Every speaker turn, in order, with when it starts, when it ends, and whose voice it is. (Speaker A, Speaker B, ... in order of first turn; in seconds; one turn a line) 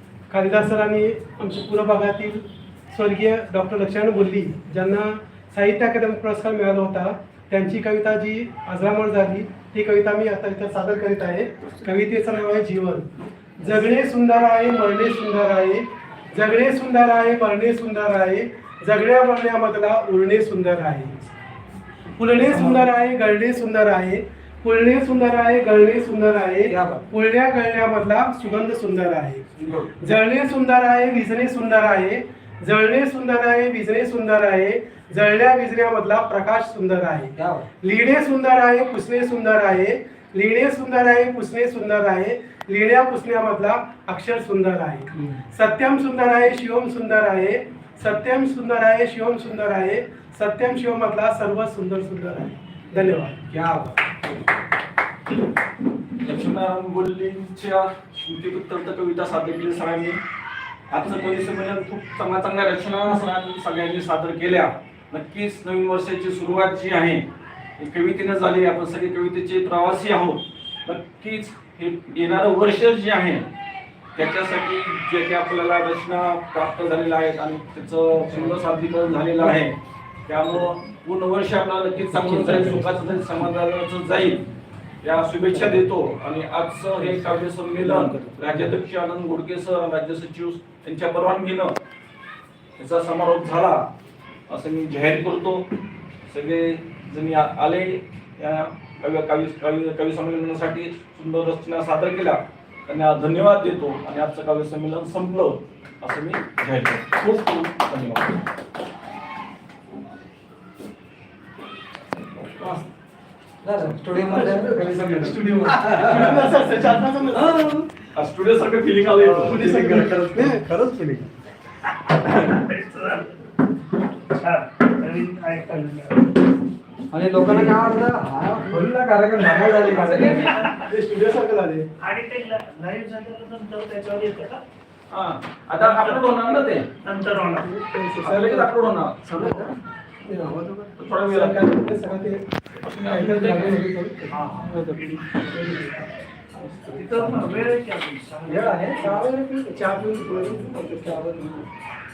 Speaker A: 0.3-13.1
Speaker A: 13.6-21.3
Speaker A: 22.2-29.4
Speaker B: 22.4-22.9
Speaker B: 26.7-27.1
Speaker C: 29.6-29.9
Speaker A: 30.0-53.4
Speaker B: 37.3-37.7
Speaker B: 53.5-54.0
Speaker C: 56.2-60.2
Speaker C: 60.9-67.3
Speaker C: 67.8-73.5
Speaker C: 74.2-79.8
Speaker B: 78.2-78.6
Speaker C: 80.3-84.4
Speaker B: 82.1-83.5
Speaker C: 85.0-91.8
Speaker B: 85.5-85.9
Speaker B: 87.0-88.7
Speaker C: 92.8-93.9
Speaker C: 94.5-95.7
Speaker C: 96.3-108.3
Speaker B: 112.6-112.9
Speaker B: 113.6-116.6
Speaker A: 114.2-117.7
Speaker B: 117.3-117.9
Speaker C: 118.1-119.7
Speaker D: 119.2-119.7
Speaker A: 119.4-120.6
Speaker B: 119.6-121.3
Speaker D: 122.1-123.4
Speaker D: 124.3-126.2
Speaker B: 127.1-130.6
Speaker C: 129.8-130.6
Speaker A: 130.1-131.9
Speaker D: 130.4-130.9
Speaker D: 132.0-134.6
Speaker C: 135.1-137.0
Speaker D: 135.8-136.4
Speaker D: 137.0-137.7
Speaker A: 137.6-138.7
Speaker C: 138.2-139.4
Speaker B: 139.3-139.7
Speaker A: 139.4-139.7
Speaker A: 140.2-140.7
Speaker B: 140.5-140.9
Speaker C: 141.0-141.6
Speaker A: 141.2-142.4
Speaker C: 142.8-143.6
Speaker A: 143.0-145.9
Speaker D: 144.3-145.3
Speaker C: 144.6-145.7
Speaker B: 146.7-147.5
Speaker D: 146.9-148.9
Speaker B: 148.5-148.9
Speaker A: 148.5-151.0
Speaker B: 150.8-151.6